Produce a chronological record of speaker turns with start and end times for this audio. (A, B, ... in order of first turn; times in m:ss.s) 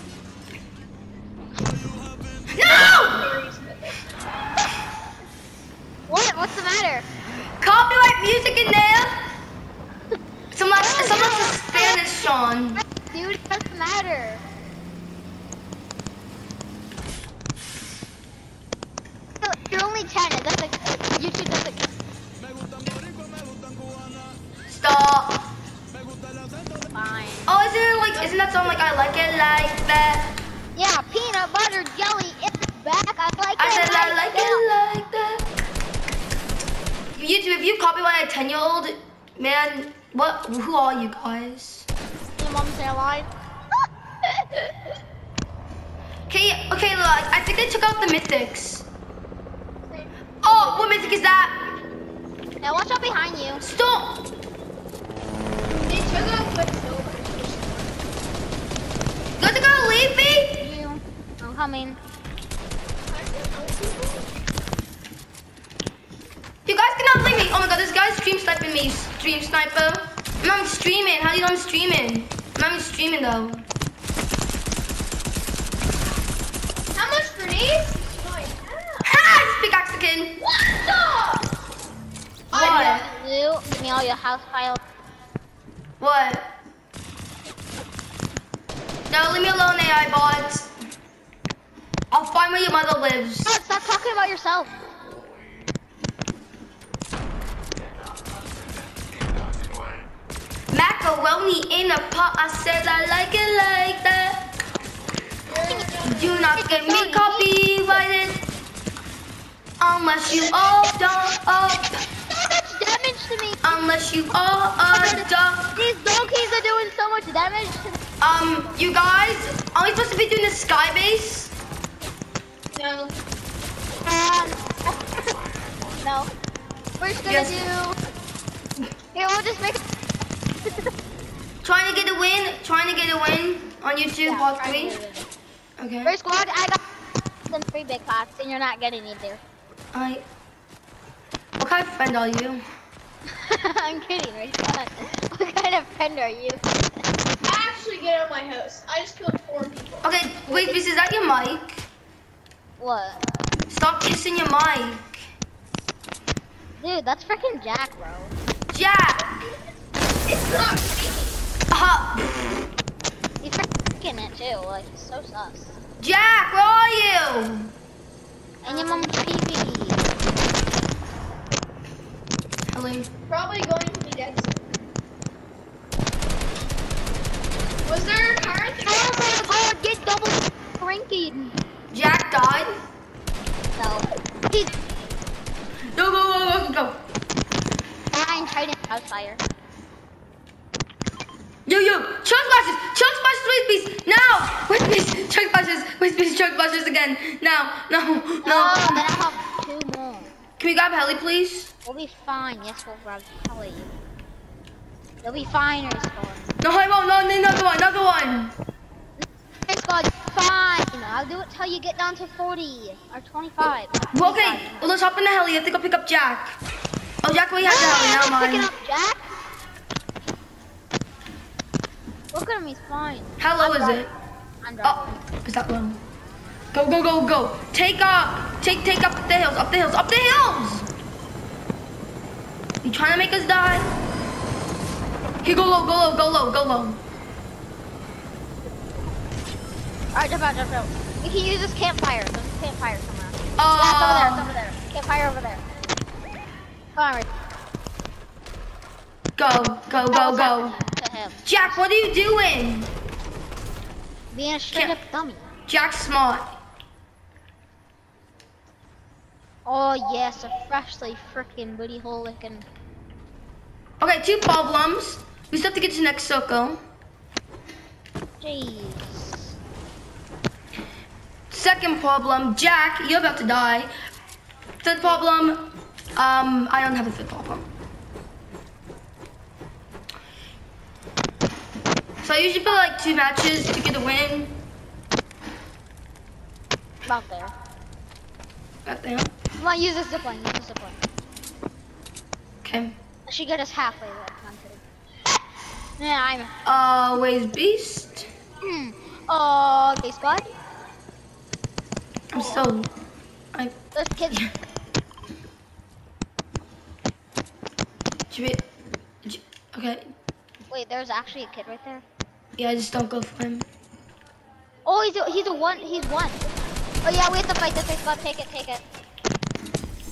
0:02.5-0:03.2 A
0:02.6-0:04.2 B
0:06.1-0:07.1 C
0:07.6-0:09.2 A
0:10.5-0:12.8 A
0:10.8-0:12.0 C
0:12.8-0:14.4 C
0:19.4-0:21.9 C
0:24.7-0:25.4 A
0:26.9-0:27.5 C
0:27.5-0:30.3 A
0:28.2-0:28.8 B
0:30.8-0:34.6 C
0:33.6-0:35.5 A
0:37.2-0:41.9 A
0:42.4-0:43.3 C
0:44.2-0:44.6 C
0:46.3-0:48.9 A
0:49.9-0:50.6 B
0:50.4-0:51.6 A
0:52.6-0:53.6 C
0:53.6-0:54.2 A
0:55.7-0:58.0 B
0:59.4-1:00.7 A
1:00.5-1:02.0 C
1:03.1-1:04.3 B
1:06.7-1:13.6 A
1:17.0-1:19.2 B
1:19.0-1:20.4 A
1:20.4-1:21.5 B
1:22.5-1:23.1 B
1:22.5-1:23.1 A
1:22.7-1:24.8 C
1:26.0-1:26.5 A
1:29.1-1:30.7 A
1:32.1-1:33.5 A
1:33.4-1:34.7 C
1:40.7-1:44.4 A
1:45.5-1:46.6 B
1:45.6-1:48.0 C
1:46.0-1:48.4 A
1:49.8-1:52.0 A
1:52.3-1:53.8 C
1:53.6-1:55.8 A
1:54.9-1:58.0 C
1:58.2-2:01.5 A
2:02.8-2:03.1 B
2:04.0-2:05.3 C
2:06.0-2:06.3 C
2:07.0-2:08.0 C
2:07.2-2:07.6 A
2:09.1-2:09.8 C
2:10.6-2:10.9 C
2:11.6-2:15.0 A
2:14.2-2:15.3 C
2:15.8-2:16.1 A
2:16.0-2:16.8 C
2:17.5-2:19.4 C
2:19.9-2:20.2 A
2:21.6-2:22.6 A
2:23.3-2:26.6 C
2:27.4-2:30.1 B
2:30.0-2:31.8 A
2:30.5-2:30.8 C
2:32.8-2:33.2 C
2:33.7-2:35.2 A
2:36.8-2:38.3 C
2:38.7-2:39.3 A
2:40.3-2:41.4 B
2:41.7-2:42.3 A
2:43.4-2:45.8 C
2:46.0-2:47.7 A
2:48.6-2:50.1 C
2:48.7-2:49.2 B
2:52.7-2:53.1 A
2:53.3-2:54.6 B
2:57.8-2:59.4 B
2:58.8-3:01.6 C
3:01.9-3:02.7 A
3:03.8-3:04.7 C
3:05.9-3:07.0 A
3:08.1-3:09.4 C
3:11.7-3:19.0 A
3:18.4-3:20.3 C
3:20.6-3:21.7 A
3:21.8-3:24.0 C
3:25.2-3:26.6 C
3:26.6-3:28.5 A
3:29.2-3:34.9 C
3:34.1-3:36.6 A
3:37.2-3:38.7 A
3:37.6-3:39.2 C
3:42.3-3:45.2 C
3:43.4-3:44.1 A
3:44.8-3:46.0 A
3:46.7-3:50.9 A
3:52.8-3:54.0 A
3:55.4-3:57.0 A
4:00.1-4:05.6 C
4:03.6-4:04.5 A
4:07.0-4:07.3 C
4:09.4-4:10.7 A
4:10.1-4:11.8 C
4:11.5-4:12.9 A
4:14.3-4:15.5 C
4:15.7-4:16.5 A
4:19.7-4:22.7 C
4:24.0-4:26.8 A
4:28.4-4:29.6 C
4:31.5-4:33.9 A
4:34.8-4:37.7 A
4:42.2-4:44.6 A
4:47.0-4:47.5 C
4:48.8-4:49.3 A
4:49.6-4:51.0 C
4:52.6-4:53.0 A
4:53.3-4:54.8 C
4:56.0-4:56.5 C
4:56.6-4:58.3 A
4:58.6-5:00.5 C
5:02.3-5:02.9 A
5:03.9-5:04.5 C
5:08.3-5:08.6 A
5:09.2-5:10.1 A
5:10.7-5:12.0 C
5:12.6-5:13.7 A
5:14.9-5:16.4 C
5:17.0-5:18.8 C